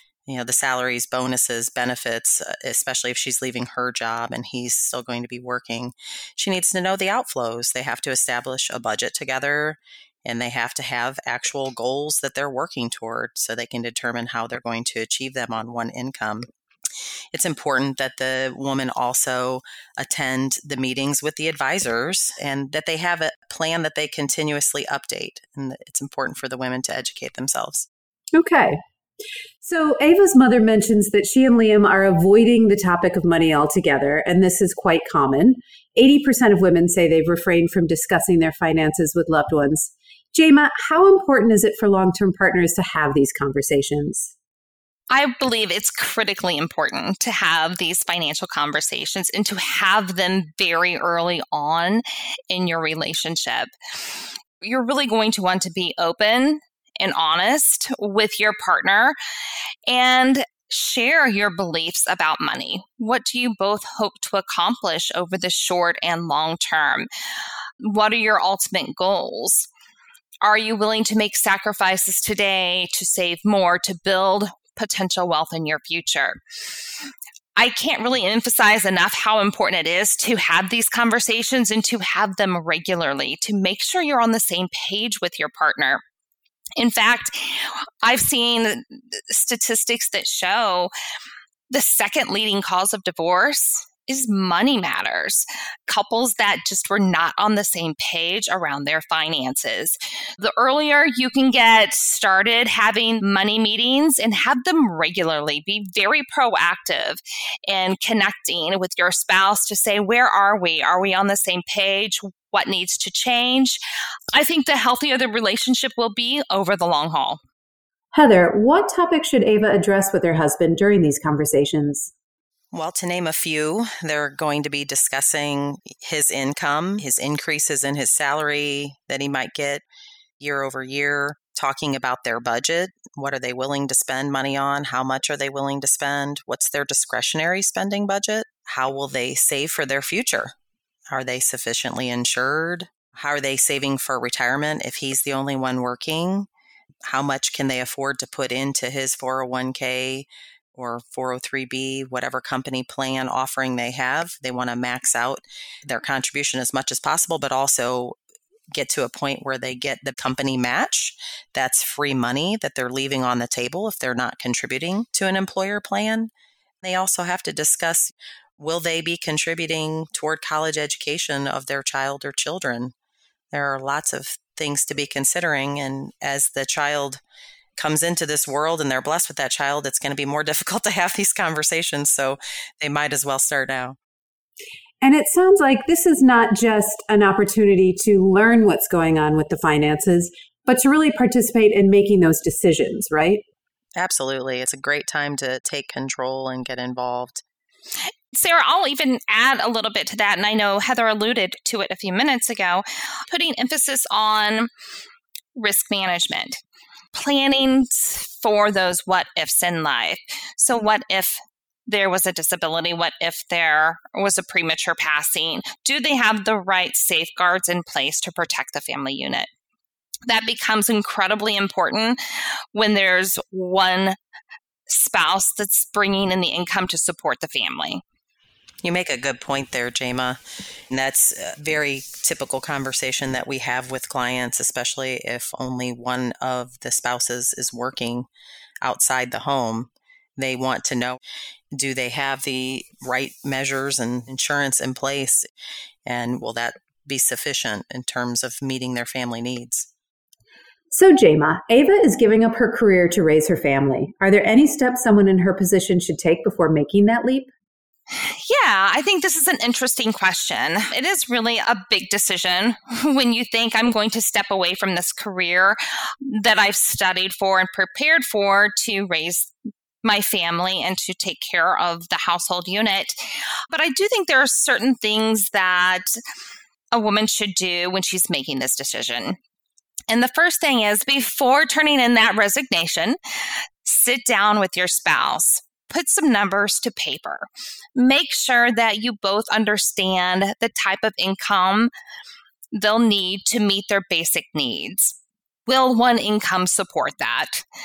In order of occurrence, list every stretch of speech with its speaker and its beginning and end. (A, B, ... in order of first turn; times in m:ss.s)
0:00.3-0:16.5 A
0:17.3-0:27.9 A
0:28.3-0:28.8 B
0:29.6-0:44.3 B
0:45.1-0:53.7 C
0:54.6-0:59.2 C
0:59.9-1:07.1 C
1:07.8-1:09.7 C
1:10.4-1:16.4 C
1:17.6-1:26.0 C
1:26.8-1:30.9 C
1:31.7-1:53.8 C
1:54.3-1:57.4 C
1:58.1-2:02.1 B
2:02.7-2:09.8 A
2:10.4-2:20.5 A
2:21.1-2:26.5 A
2:27.0-2:38.2 A
2:38.7-2:46.3 A
2:46.8-2:52.9 A
2:53.5-2:57.2 A
2:57.8-3:04.0 A
3:05.0-3:13.4 B
3:14.0-3:17.4 A
3:18.3-3:24.7 C
3:25.6-3:26.6 C
3:27.1-3:39.5 C
3:40.3-3:42.2 C
3:42.7-3:44.2 C
3:44.9-3:48.0 C
3:48.8-3:50.4 A
3:50.9-3:58.3 A
3:58.8-4:01.2 A
4:01.7-4:05.5 A
4:06.1-4:09.9 A
4:10.9-4:17.5 B
4:18.1-4:29.5 C
4:30.0-4:33.2 C
4:33.7-4:36.1 C
4:36.9-4:39.4 C
4:40.1-4:43.2 C
4:43.8-4:51.9 C
4:52.7-4:55.2 C
4:55.7-4:57.6 C